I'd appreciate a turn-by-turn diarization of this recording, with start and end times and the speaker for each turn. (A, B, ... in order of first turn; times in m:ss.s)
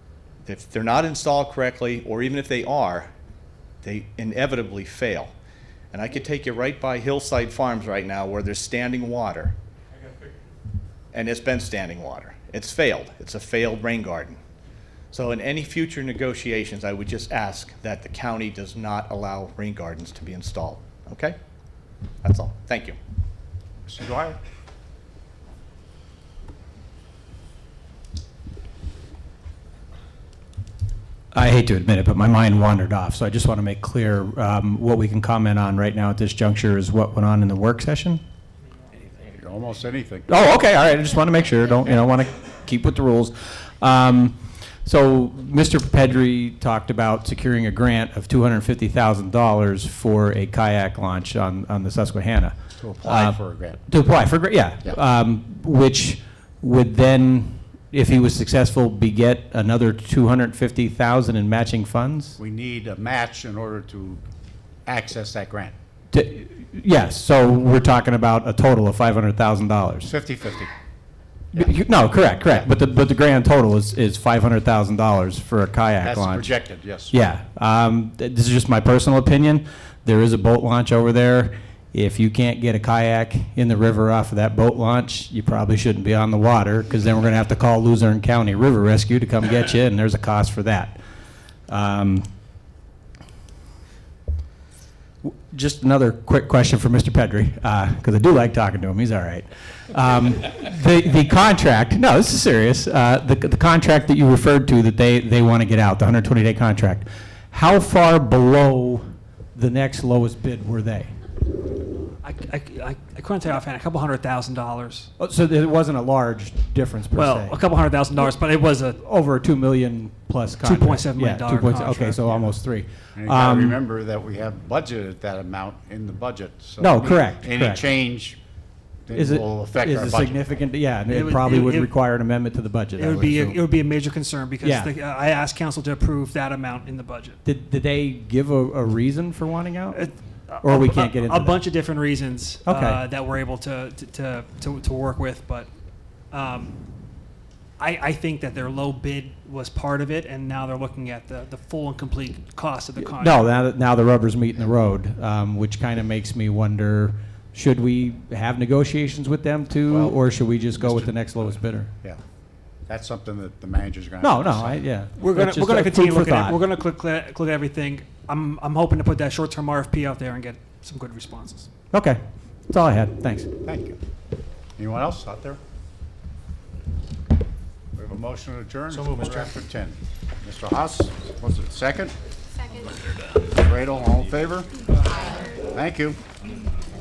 0:00.4-0:03.1 A
0:03.8-0:05.3 A
0:05.9-0:09.6 A
0:11.1-0:14.4 A
0:15.1-0:21.4 A
0:22.2-0:23.0 A
0:23.9-0:24.4 B
0:31.3-0:38.2 C
0:39.2-0:40.3 B
0:40.3-1:02.4 C
0:52.8-0:53.8 B
1:02.4-1:04.2 B
1:04.9-1:05.7 B
1:06.1-1:10.1 C
1:10.0-1:10.7 B
1:11.5-1:16.5 C
1:12.4-1:12.7 B
1:16.0-1:17.1 B
1:17.1-1:31.0 C
1:31.7-1:32.2 C
1:35.2-1:49.0 C
1:49.6-1:51.2 C
1:52.2-1:55.1 D
1:55.2-1:57.6 C
1:57.1-1:59.0 D
1:59.0-2:03.8 C
2:00.6-2:02.2 D
2:01.9-2:02.5 B
2:03.2-2:08.4 B
2:06.8-2:07.8 C
2:09.1-2:10.4 B
2:09.1-2:13.6 C
2:11.1-2:11.9 D
2:13.0-2:17.4 D
2:14.6-2:14.9 C
2:17.4-2:20.1 C
2:19.9-2:25.7 D
2:20.6-2:21.6 C
2:22.6-2:23.0 C
2:26.3-2:26.8 D
2:27.8-2:33.4 D
2:33.0-2:41.9 C
2:39.9-2:40.3 B
2:40.8-2:42.2 B
2:42.9-2:44.8 B
2:44.2-2:46.6 C
2:45.2-2:51.7 D
2:51.9-2:53.5 C
2:53.6-2:54.0 B
2:54.8-2:55.6 B
2:58.0-3:02.2 B
3:03.5-3:04.7 B
3:05.7-3:06.2 B